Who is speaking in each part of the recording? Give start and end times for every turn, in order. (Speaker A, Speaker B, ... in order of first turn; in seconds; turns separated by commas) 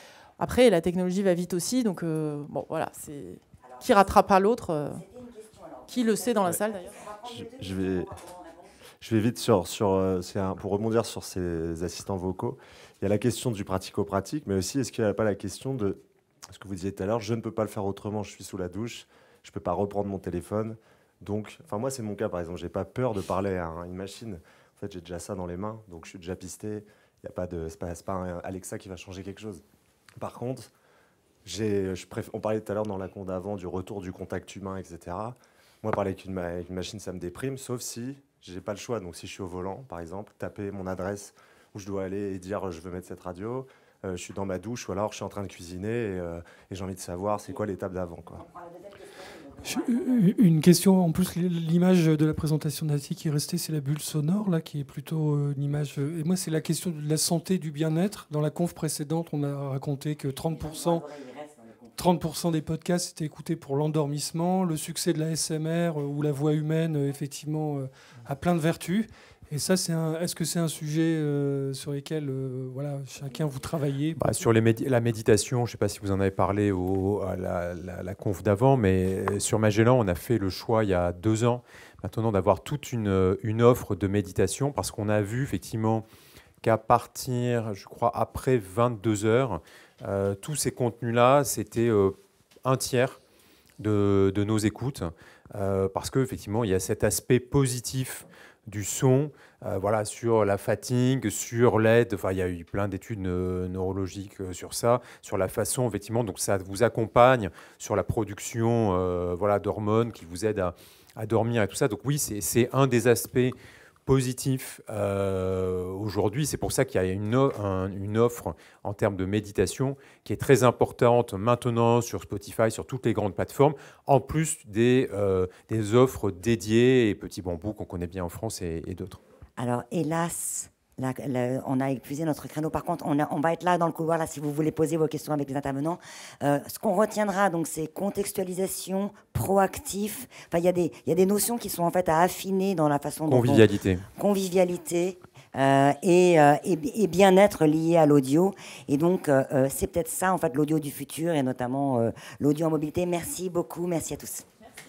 Speaker A: 0.4-5.0, Speaker B: 3.6-4.3, Speaker B: 4.9-8.7, Speaker A: 5.9-7.0, Speaker C: 7.3-8.1, Speaker C: 9.0-29.6, Speaker C: 30.2-30.7, Speaker C: 31.4-48.4, Speaker B: 48.4-50.3, Speaker D: 49.6-61.1, Speaker B: 60.5-62.0, Speaker D: 62.0-74.5, Speaker E: 74.2-86.0, Speaker E: 86.6-93.2, Speaker E: 93.8-129.2, Speaker B: 129.6-154.5, Speaker E: 143.3-144.0